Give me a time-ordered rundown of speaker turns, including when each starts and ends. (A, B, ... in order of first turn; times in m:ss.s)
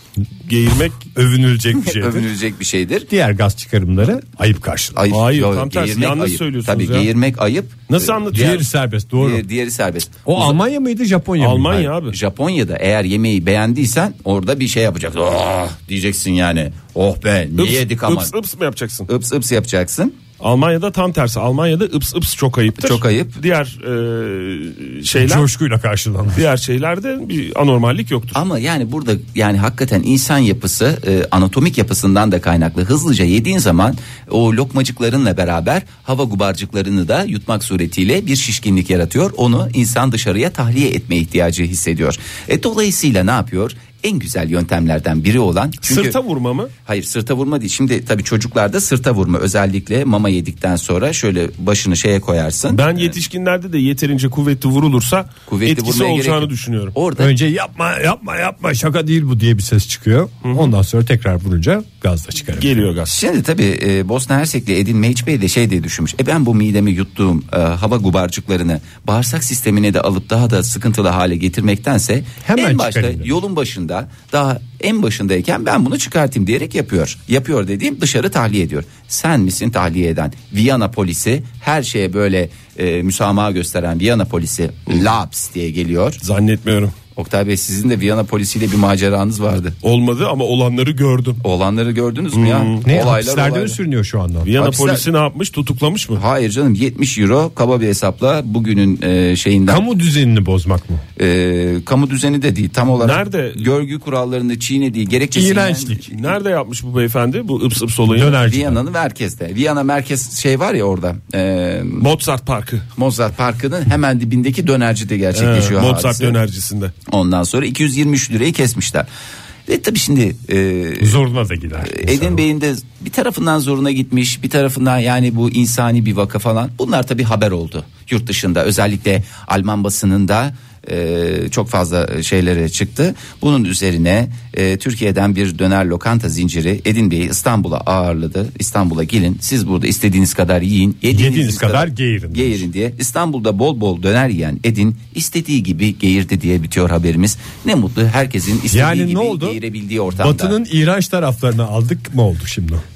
0:00.4-0:01.0 A
0:01.1-0:02.3 B
0:01.8-0:03.1 C
0:03.1-0:05.0 B
0:05.0-0:08.6 C
0:05.1-0:07.1 A
0:07.9-0:08.7 A
0:08.3-0:09.4 B
0:09.2-0:10.6 C
0:10.3-0:11.9 B
0:11.4-0:12.2 A
0:12.1-0:18.3 C
0:17.6-0:19.1 A
0:19.1-0:20.2 C
0:20.4-0:25.5 A
0:22.8-0:23.4 C
0:25.2-0:26.4 B
0:26.3-0:28.4 A
0:28.3-0:46.2 C
0:45.8-0:46.7 A
0:46.9-0:53.2 C
0:52.7-0:57.0 A
0:55.5-0:57.3 C
0:57.2-1:02.9 B
1:00.4-1:00.7 A
1:02.6-1:03.2 A
1:03.1-1:26.2 C
1:12.4-1:13.3 B
1:26.2-1:26.9 A
1:27.2-1:29.8 C
1:29.8-1:31.4 A
1:31.4-1:33.8 C
1:32.3-1:32.8 A
1:32.8-1:34.5 B
1:34.4-1:36.2 A
1:34.6-1:35.0 C
1:36.2-1:39.8 C
1:39.7-1:41.0 B
1:41.2-1:46.1 C
1:43.0-1:43.7 A
1:45.3-1:46.1 B
1:46.1-1:48.4 A
1:48.1-1:48.8 B
1:48.4-1:52.0 C
1:52.0-1:52.9 A
1:53.0-1:56.4 C
1:55.3-1:56.9 A
1:57.1-1:59.1 C
1:59.7-2:01.2 C
2:01.0-2:02.4 B
2:01.8-2:30.6 C
2:21.1-2:22.7 B
2:28.7-2:29.6 B
2:30.2-2:32.8 B